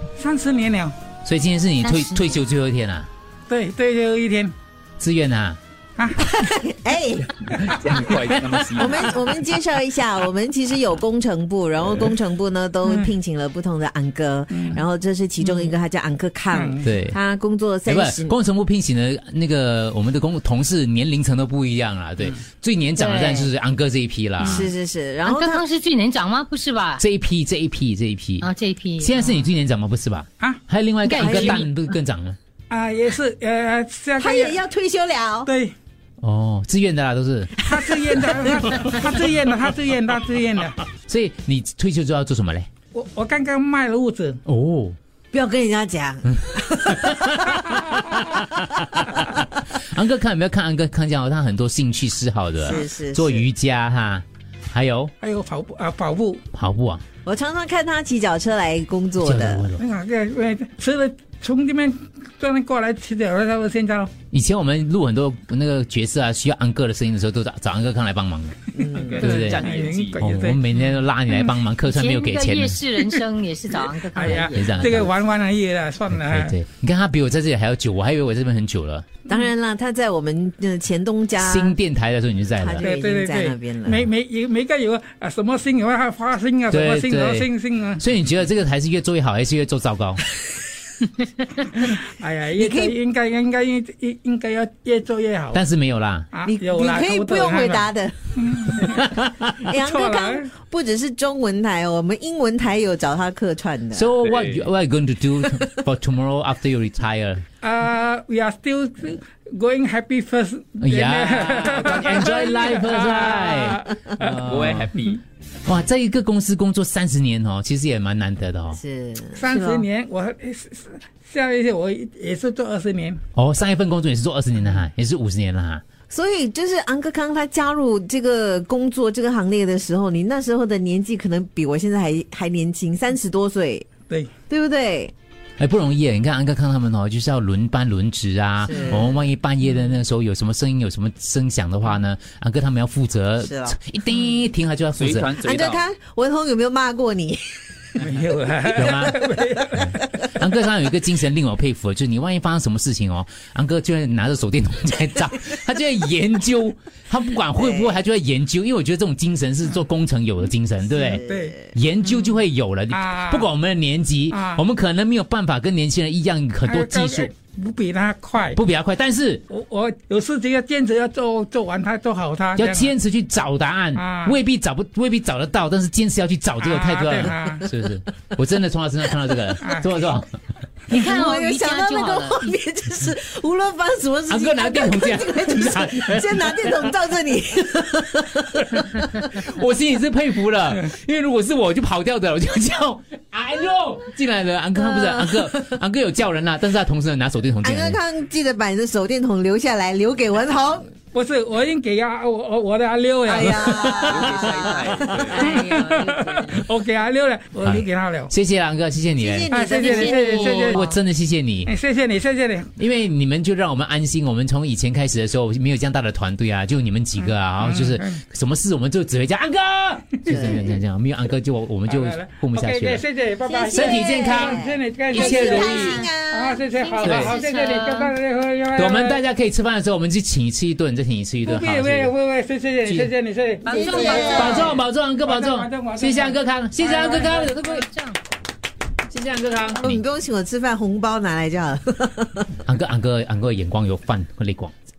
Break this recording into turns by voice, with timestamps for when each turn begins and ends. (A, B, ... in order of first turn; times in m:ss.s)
0:00.2-0:00.9 A
0:01.2-0:03.1 B
0:01.8-0:02.4 C
0:03.5-0:04.5 A
0:05.0-0:05.6 B
0:06.0-0:06.3 A
0:06.2-0:07.5 D
0:07.7-0:09.3 E
0:08.7-0:18.4 D
0:14.5-0:14.8 A
0:16.5-0:16.8 A
0:16.8-0:17.2 B
0:17.8-0:24.7 B
0:23.0-0:23.5 C
0:24.4-0:25.6 D
0:25.2-0:27.0 C
0:27.0-0:28.5 B
0:28.4-0:29.5 C
0:29.0-0:32.4 B
0:31.0-0:31.6 C
0:31.2-0:31.6 D
0:32.7-0:34.5 A
0:34.2-0:35.5 D
0:35.5-0:35.7 A
0:36.2-0:37.6 B
0:37.6-0:40.8 A
0:40.9-0:42.7 B
0:42.9-0:44.4 A
0:44.4-0:45.0 B
0:45.3-0:49.4 D
0:46.4-0:55.1 B
0:52.6-0:53.4 D
0:55.2-0:56.4 A
0:56.5-0:57.0 B
0:57.2-0:59.6 D
0:59.2-0:59.8 B
0:59.8-1:04.1 A
1:04.3-1:09.6 B
1:08.8-1:09.2 D
1:08.9-1:10.3 E
1:09.2-1:10.6 A
1:10.2-1:12.8 B
1:11.8-1:15.1 C
1:14.1-1:16.5 A
1:14.4-1:15.1 B
1:16.1-1:19.1 B
1:19.3-1:21.8 D
1:21.4-1:22.9 B
1:22.6-1:24.1 D
1:22.8-1:28.0 A
1:26.7-1:30.2 B
1:31.6-1:35.6 A
1:32.5-1:33.0 D
1:35.5-1:36.3 B
1:36.3-1:39.1 A
1:36.4-1:38.7 D
1:39.0-1:39.6 B
1:39.6-1:44.1 D
1:39.7-1:40.5 A
1:43.9-1:47.4 B
1:44.2-1:44.7 E
1:47.6-1:54.4 A
1:50.8-1:54.9 B
1:51.7-1:52.2 E
1:54.2-1:55.2 E
1:55.6-1:58.8 B
1:58.7-1:59.8 D
1:59.3-2:03.2 A
2:03.3-2:05.8 B
2:06.1-2:13.9 D
2:14.5-2:15.1 D
2:15.6-2:25.4 B
2:18.6-2:19.2 D
2:23.4-2:23.8 D
2:24.9-2:25.8 E
2:25.4-2:28.0 D
2:28.0-2:30.2 A
2:28.7-2:29.2 B
2:29.7-2:47.3 B
2:37.5-2:37.9 D
2:40.9-2:41.7 D
2:41.0-2:41.6 A
2:42.9-2:43.5 A
2:44.3-2:44.6 A
2:46.6-2:48.6 A
2:48.5-2:49.4 B
2:49.5-2:52.9 A
2:52.6-3:00.4 B
2:54.0-2:54.4 A
2:56.6-2:57.7 A
2:59.6-2:59.9 A
3:00.9-3:09.3 D
3:00.9-3:02.5 C
3:04.3-3:06.9 B
3:09.1-3:18.0 B
3:14.8-3:15.7 D
3:17.6-3:20.9 D
3:21.1-3:24.4 A
3:23.2-3:25.3 D
3:24.0-3:25.5 E
3:25.2-3:26.6 C
3:25.3-3:28.3 A
3:27.6-3:29.5 B
3:29.2-3:30.6 D
3:29.5-3:30.9 A
3:29.8-3:31.0 C
3:30.6-3:31.7 B
3:31.6-3:32.7 A
3:32.8-3:43.0 B
3:37.6-3:38.2 A
3:40.3-3:40.6 A
3:41.8-3:49.2 A
3:43.5-3:46.6 D
3:43.7-3:44.6 B
3:45.1-3:46.1 C
3:46.7-3:48.1 C
3:47.0-3:47.4 B
3:48.8-3:52.1 B
3:51.4-3:54.6 A
3:52.8-3:53.1 B
3:53.6-3:54.8 C
3:53.7-3:54.7 D
3:54.2-3:57.9 B
3:55.2-3:56.4 A
3:56.8-3:58.2 C
3:57.0-3:57.3 A
3:59.1-4:00.0 B
3:59.8-4:02.5 D
4:02.6-4:04.7 B